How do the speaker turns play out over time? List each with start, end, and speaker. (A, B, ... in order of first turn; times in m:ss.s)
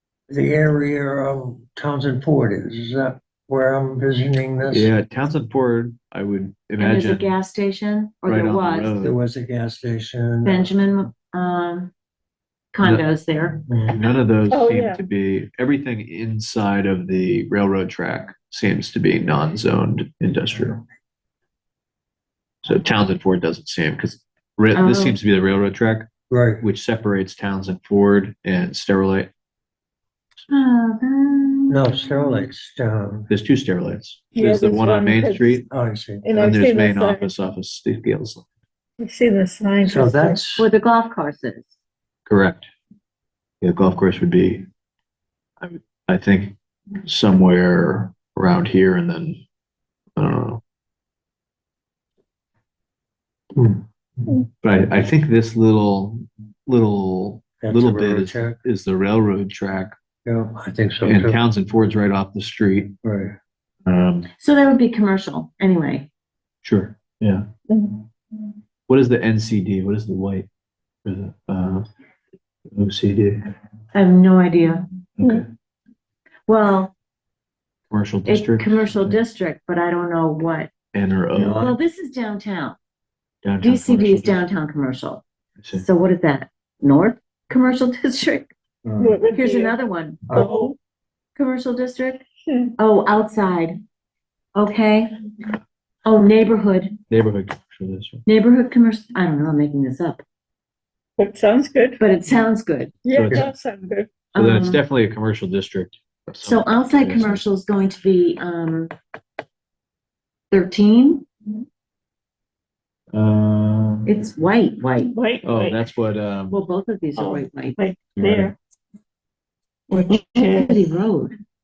0:00.3-0:04.9 A
0:04.7-0:07.3 B
0:06.8-0:09.1 C
0:08.3-0:09.2 B
0:09.0-0:10.7 A
0:10.4-0:11.9 C
0:12.7-0:13.6 C
0:13.7-0:14.0 A
0:13.9-0:20.8 B
0:14.5-0:15.0 D
0:22.6-0:26.1 B
0:24.7-0:25.2 C
0:26.3-0:26.6 A
0:26.6-0:29.3 B
0:30.5-0:32.5 C
0:31.7-0:33.3 A
0:33.3-0:35.6 B
0:34.4-0:35.6 D
0:35.7-0:36.3 A
0:36.2-0:37.3 D
0:36.4-0:38.4 B
0:39.0-0:40.4 D
0:39.8-0:40.7 A
0:40.6-0:41.8 C
0:42.3-0:42.7 B
0:43.6-0:44.7 B
0:45.6-0:49.4 B
0:50.2-0:50.6 B
0:53.5-0:54.3 A
0:54.6-1:00.0 B
0:57.6-0:58.6 A
1:00.2-1:01.4 A
1:01.0-1:02.9 B
1:03.0-1:03.4 A
1:03.8-1:04.3 B
1:04.4-1:06.1 C
1:06.6-1:07.5 B
1:07.7-1:08.0 D
1:08.9-1:10.5 B
1:11.0-1:11.9 B
1:12.7-1:13.5 B
1:13.9-1:15.4 C
1:15.2-1:15.5 B
1:16.5-1:16.9 C
1:17.9-1:19.2 B
1:18.3-1:20.7 C
1:20.9-1:21.7 B
1:21.3-1:21.7 A
1:21.5-1:22.8 C
1:23.4-1:24.4 B
1:23.6-1:28.5 C
1:25.6-1:25.8 B
1:28.8-1:29.2 A
1:29.0-1:29.8 D
1:29.3-1:30.3 C
1:30.3-1:30.7 A
1:30.3-1:30.7 D
1:31.4-1:32.3 C
1:32.5-1:32.7 D
1:32.8-1:33.8 C
1:34.6-1:35.1 C
1:36.0-1:37.0 C
1:37.1-1:38.2 B
1:38.3-1:40.2 C
1:41.2-1:42.0 D
1:42.0-1:43.0 C
1:43.0-1:44.1 D
1:43.1-1:43.5 B
1:44.3-1:44.8 C
1:44.4-1:47.4 B
1:46.4-1:48.9 C
1:50.5-1:51.3 C
1:53.1-1:54.1 B
1:54.1-1:55.1 C
1:55.1-1:55.8 D
1:55.4-1:56.6 B
1:56.5-1:57.8 C
1:57.2-1:58.5 D
1:58.2-1:58.5 B
1:59.9-2:00.8 D
1:59.9-2:01.4 C